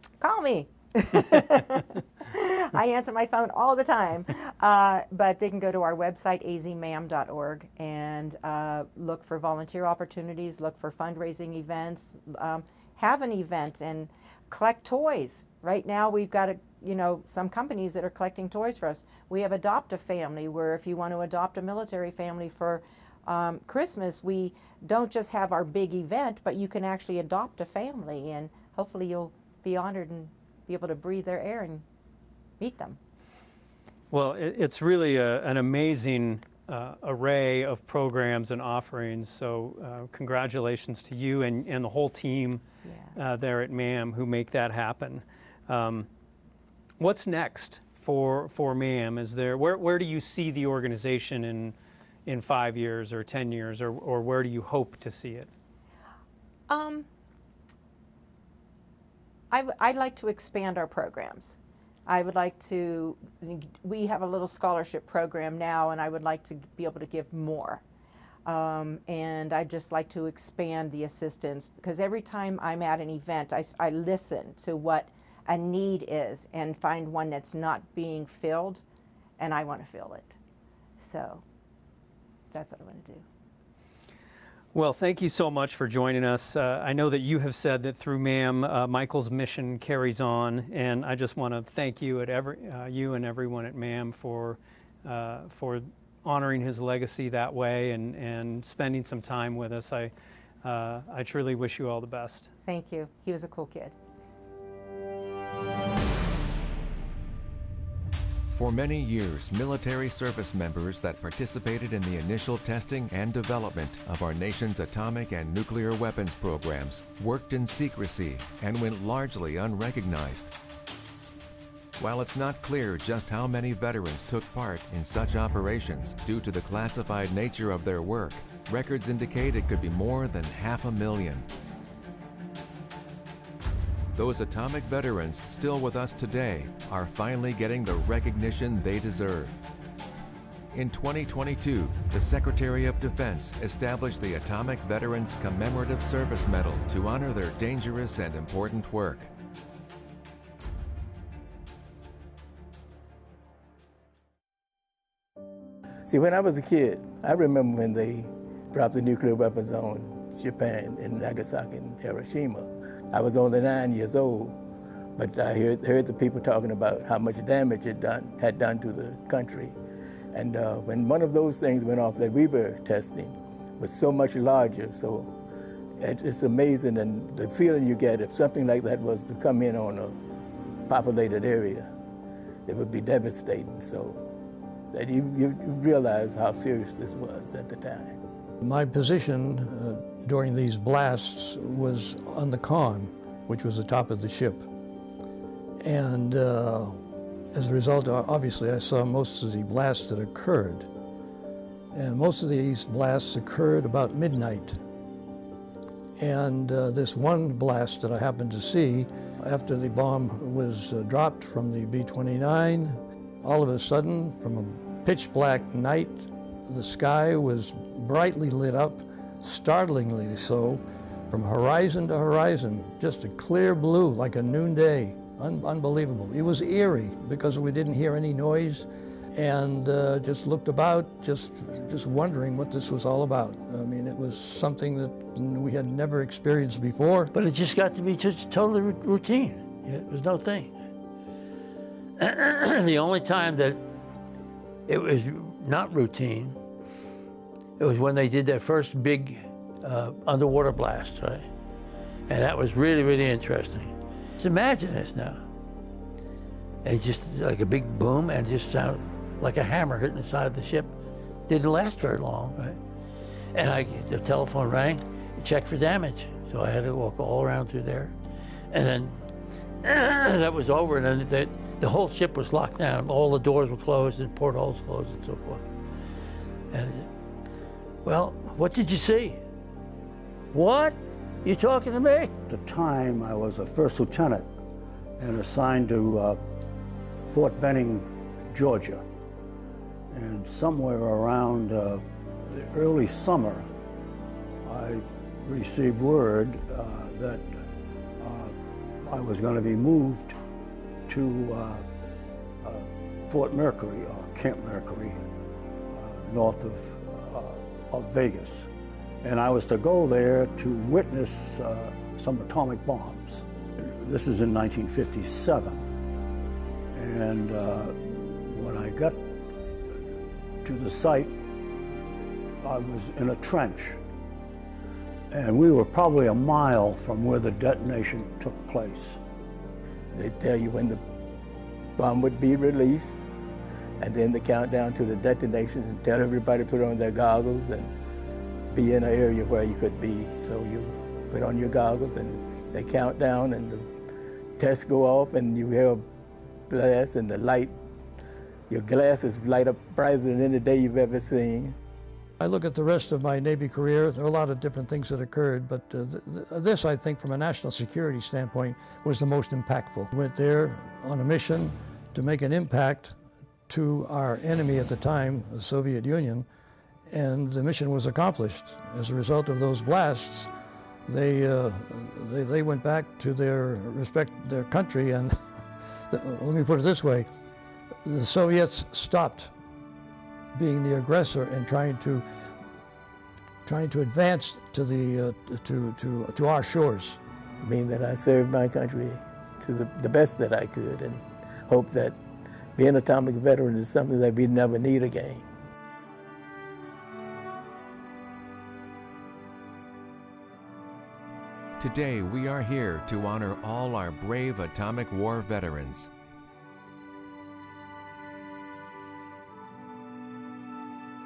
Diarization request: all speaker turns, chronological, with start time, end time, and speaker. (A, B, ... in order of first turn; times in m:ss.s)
0:00.2-0:31.8 A
0:32.6-0:33.0 A
0:34.1-0:42.6 B
0:42.8-0:43.2 A
0:43.2-0:46.1 B
0:47.0-0:51.7 B
0:52.2-0:55.5 B
0:56.7-0:57.1 A
0:59.5-1:07.8 A
1:08.4-1:18.8 A
1:19.4-1:20.4 A
1:21.0-1:21.4 A
1:22.5-1:23.2 A
1:24.7-1:40.1 B
1:40.6-1:42.5 B
1:42.6-1:43.9 A
1:48.5-2:00.5 C
2:02.0-2:11.5 C
2:14.1-2:19.6 C
2:20.7-2:29.3 C
2:36.0-2:44.6 D
2:45.2-2:49.7 D
2:50.3-2:55.3 D
2:56.0-3:00.2 D
3:00.8-3:01.9 D
3:02.6-3:04.2 D
3:04.9-3:08.2 D
3:08.6-3:14.7 E
3:15.8-3:20.9 E
3:21.9-3:24.8 E
3:26.2-3:57.3 E
3:57.3-4:00.8 F
4:02.2-4:03.8 F
4:04.9-4:06.6 F
4:07.8-4:11.5 F
4:12.3-4:15.4 F
4:16.8-4:20.9 F
4:21.5-4:22.8 F
4:23.5-4:28.1 F
4:28.7-4:29.3 F
4:29.8-4:35.6 F
4:36.7-4:37.1 F
4:38.0-4:39.4 F
4:40.5-4:42.3 F
4:42.5-4:44.5 G
4:45.2-4:46.4 G
4:47.2-4:49.0 G
4:50.1-4:53.7 G
4:54.6-4:57.5 G
4:58.2-5:00.3 G
5:01.1-5:01.9 G
5:02.6-5:05.2 G
5:05.9-5:08.7 G
5:09.2-5:15.9 G
5:16.9-5:19.2 G
5:20.6-5:21.4 G
5:22.6-5:24.0 G
5:25.3-5:29.2 G
5:30.1-5:31.0 D
5:31.9-5:33.2 D
5:34.0-5:37.9 D
5:38.7-5:43.9 D
5:44.6-5:46.0 D
5:46.7-5:47.8 D
5:48.7-5:51.8 D
5:52.4-6:03.2 E
6:03.7-6:06.4 E
6:07.1-6:10.5 E
6:11.1-6:15.4 E
6:16.1-6:17.3 E
6:18.0-6:19.5 E
6:20.5-6:22.3 E
6:23.6-6:27.2 E
6:27.6-6:32.2 D
6:32.8-6:35.4 D
6:41.8-6:46.1 C